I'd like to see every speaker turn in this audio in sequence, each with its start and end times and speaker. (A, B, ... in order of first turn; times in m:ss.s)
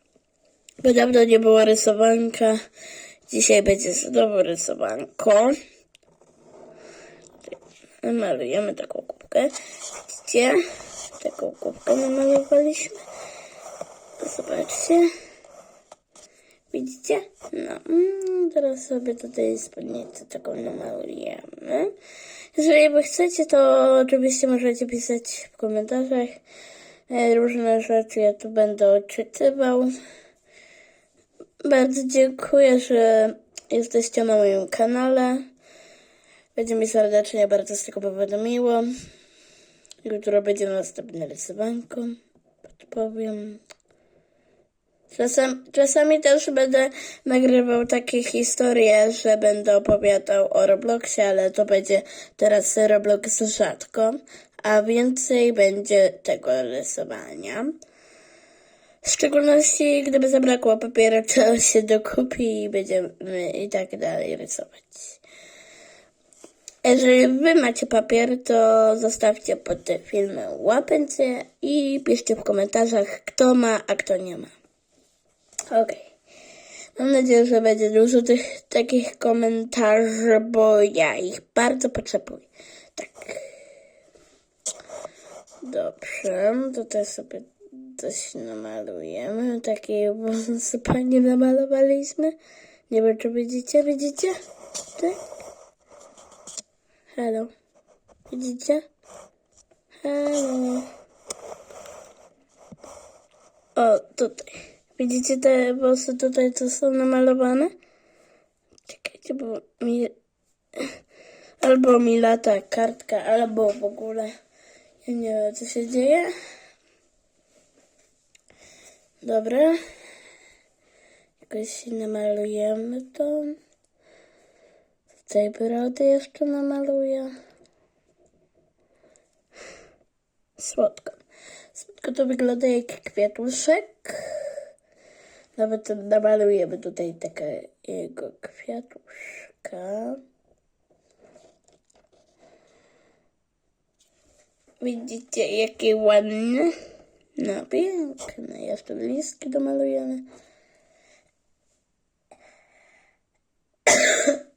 0:00.8-0:02.6 A
0:03.3-0:05.6 A
0:08.0-0:09.5 A
0:10.1-0:10.6 A
0:11.2-0:13.0 A
0:14.2-0:15.1 A
0:16.7-0:21.9 A
0:22.6-0:26.4 A
0:27.1-0:29.9 A
0:31.6-0:35.4 A
0:36.5-0:38.9 A
0:40.0-0:42.2 A
0:42.8-0:43.6 A
0:45.1-0:57.8 A
0:59.0-1:05.2 A
1:06.8-1:14.5 A
1:15.7-1:16.1 A
1:17.0-1:23.5 A
1:25.6-1:32.3 A
1:32.9-1:34.4 A
1:37.1-1:37.5 A
1:38.3-1:38.8 A
1:40.0-1:40.9 A
1:43.8-1:47.7 A
1:48.9-1:50.1 A
1:51.6-1:54.3 A
1:55.0-1:56.3 A
1:59.2-1:59.8 A
2:01.4-2:03.6 A
2:05.2-2:07.3 A
2:10.6-2:11.2 A
2:11.8-2:14.2 A
2:15.6-2:20.2 A
2:24.8-2:26.7 A
2:27.4-2:30.3 A
2:33.9-2:34.4 A